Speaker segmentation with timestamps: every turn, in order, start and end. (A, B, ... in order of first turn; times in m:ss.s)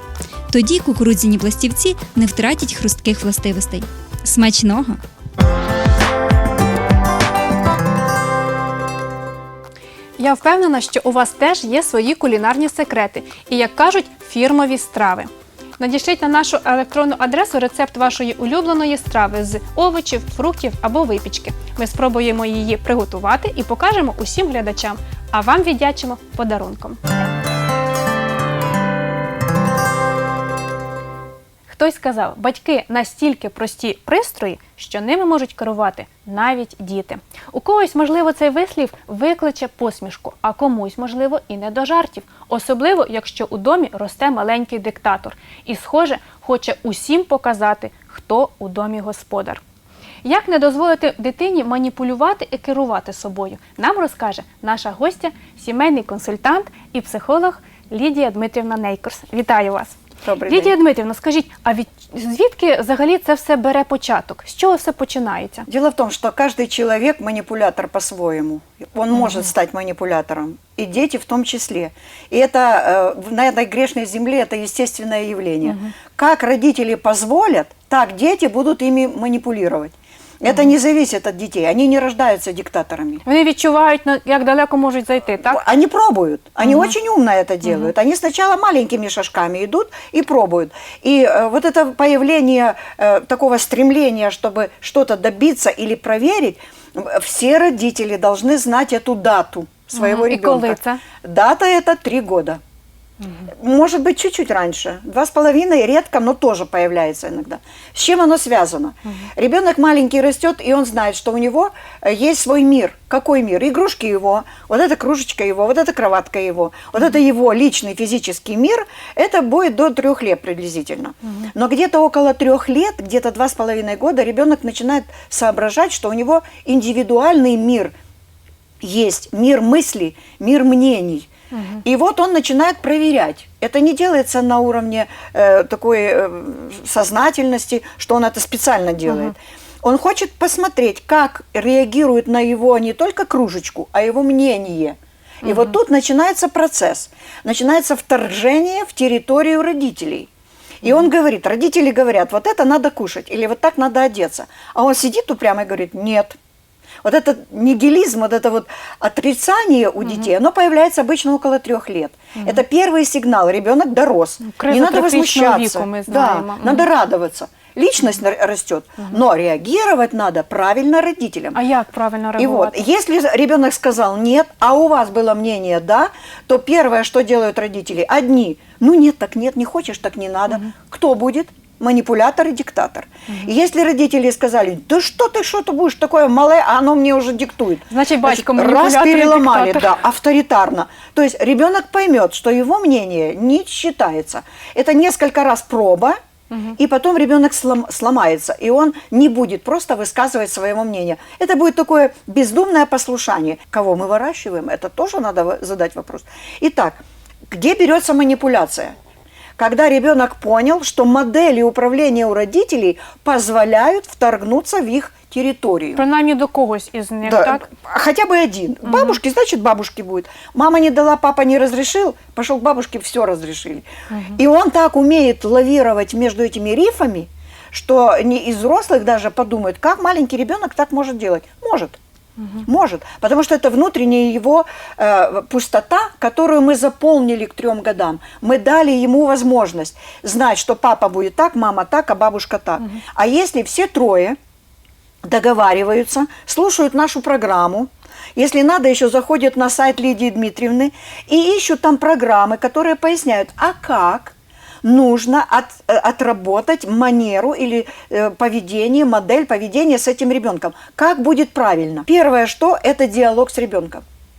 0:00.5-0:05.0 A
0:10.2-0:27.0 B
0:31.7-0:49.6 B
0:50.2-1:05.7 B
1:00.2-1:00.8 C
1:05.7-1:23.2 C
1:09.1-1:09.5 B
1:15.6-1:15.9 B
1:20.5-1:20.7 B
1:23.2-1:25.6 B
1:25.5-1:42.6 C
1:26.6-1:26.9 B
1:27.6-1:27.9 B
1:39.9-1:41.0 B
1:43.2-1:43.5 B
1:43.6-2:07.9 C
2:01.2-2:01.5 B
2:08.8-2:11.3 C
2:11.5-2:11.8 B
2:11.8-2:30.3 C
2:19.1-2:19.3 B
2:25.4-2:25.8 B
2:30.8-2:36.4 C
2:37.0-2:51.6 C
2:42.4-2:42.6 B
2:44.4-2:46.9 B
2:51.5-2:52.8 B
2:52.4-3:16.2 C
3:07.9-3:10.0 B
3:16.5-3:16.8 B
3:16.8-3:28.9 C
3:29.6-3:36.0 C
3:36.0-3:37.7 B
3:37.2-3:52.0 C
3:38.8-3:39.2 B
3:44.1-3:44.4 B
3:52.4-3:52.7 B
3:52.6-4:04.4 C
4:05.2-4:24.0 C